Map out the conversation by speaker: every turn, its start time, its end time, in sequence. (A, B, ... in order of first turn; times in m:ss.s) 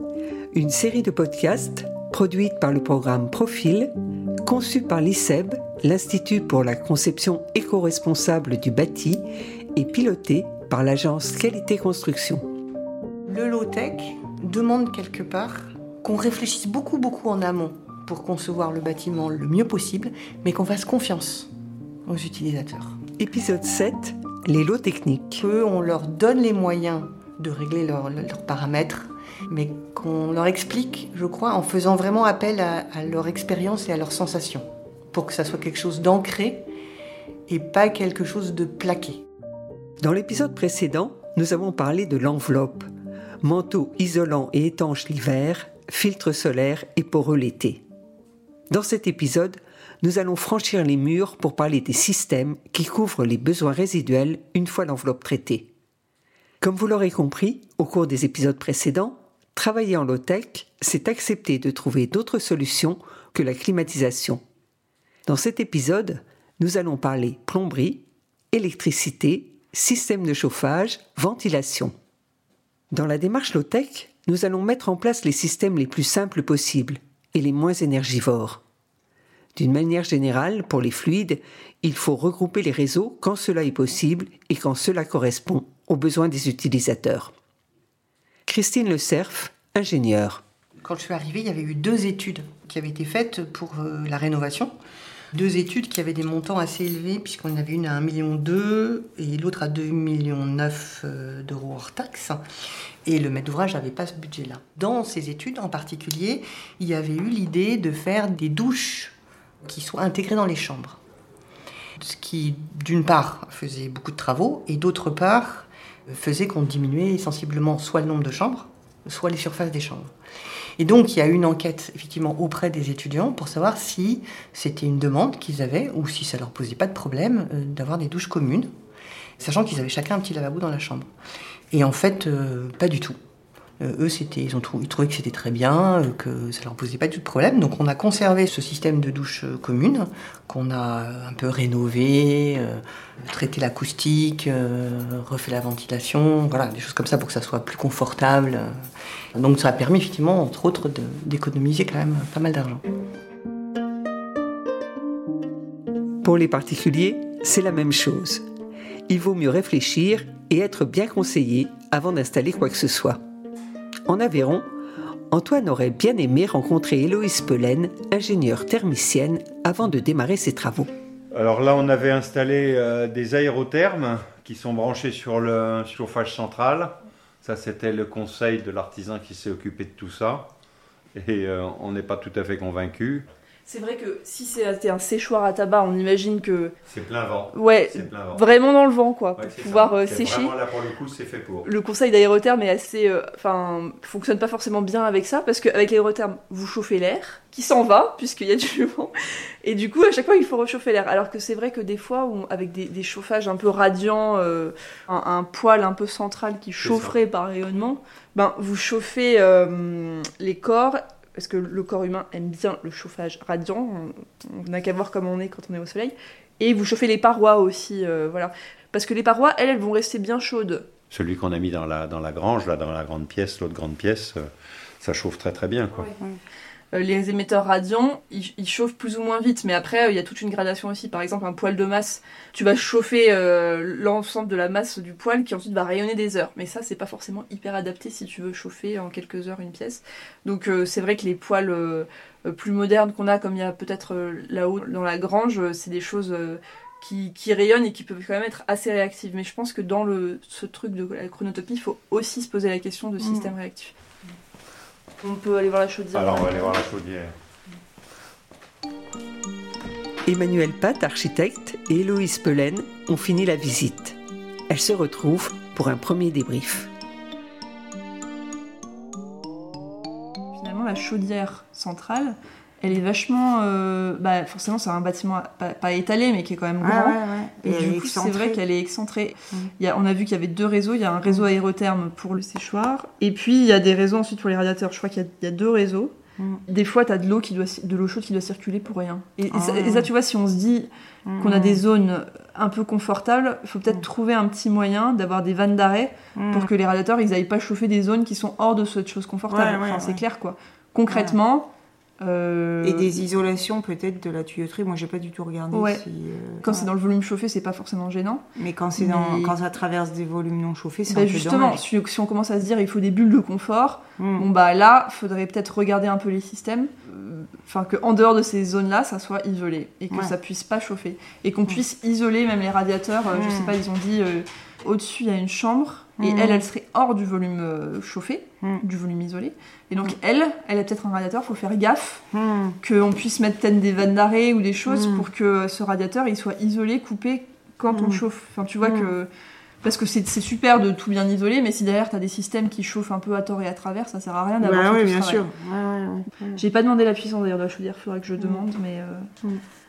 0:00.5-0:03.9 A
0:04.4-0:09.2 A
0:09.8-0:12.4 A
0:13.3-0:21.5 B
0:22.1-0:23.0 B
0:23.2-0:25.4 A
0:25.4-0:36.7 B
0:37.5-0:39.2 B
0:40.0-0:42.9 A
0:43.4-0:47.8 A
0:48.7-0:55.7 A
0:56.6-1:04.4 A
1:05.2-1:11.9 A
1:12.9-1:18.6 A
1:19.6-1:27.3 A
1:28.5-1:30.4 A
1:30.8-1:34.7 B
1:35.3-1:42.4 B
1:43.0-1:51.0 B
1:52.0-2:00.1 B
2:00.8-2:08.7 B
2:09.4-2:11.1 B
2:11.7-2:13.2 B
2:13.8-2:28.7 B
2:29.3-2:32.8 B
2:36.2-2:38.4 A
2:39.1-2:43.2 A
2:44.1-2:44.6 A
2:45.3-2:50.9 A
2:51.3-3:00.5 C
3:01.1-3:03.2 C
3:03.7-3:06.7 D
3:06.9-3:08.4 C
3:07.5-3:10.6 D
3:09.4-3:11.6 C
3:11.6-3:19.1 D
3:19.6-3:40.9 D
3:26.8-3:27.1 C
3:41.1-3:46.1 C
3:46.9-4:13.9 D
4:15.2-4:16.8 D
4:16.1-4:17.3 C
4:20.2-4:24.2 A
4:24.7-4:26.9 A
4:30.5-4:46.1 D
4:36.8-4:38.6 E
4:46.7-5:01.7 D
4:49.5-4:50.0 E
4:51.3-4:51.8 E
4:59.5-5:00.2 E
5:02.2-5:03.1 D
5:02.8-5:06.8 E
5:05.7-5:06.0 D
5:06.6-5:09.6 D
5:08.6-5:11.8 E
5:11.1-5:32.2 D
5:14.2-5:14.4 E
5:26.3-5:26.5 E
5:32.3-5:32.7 E
5:32.8-5:39.3 D
5:39.8-5:45.5 D
5:44.6-5:46.4 E
5:46.6-5:49.3 D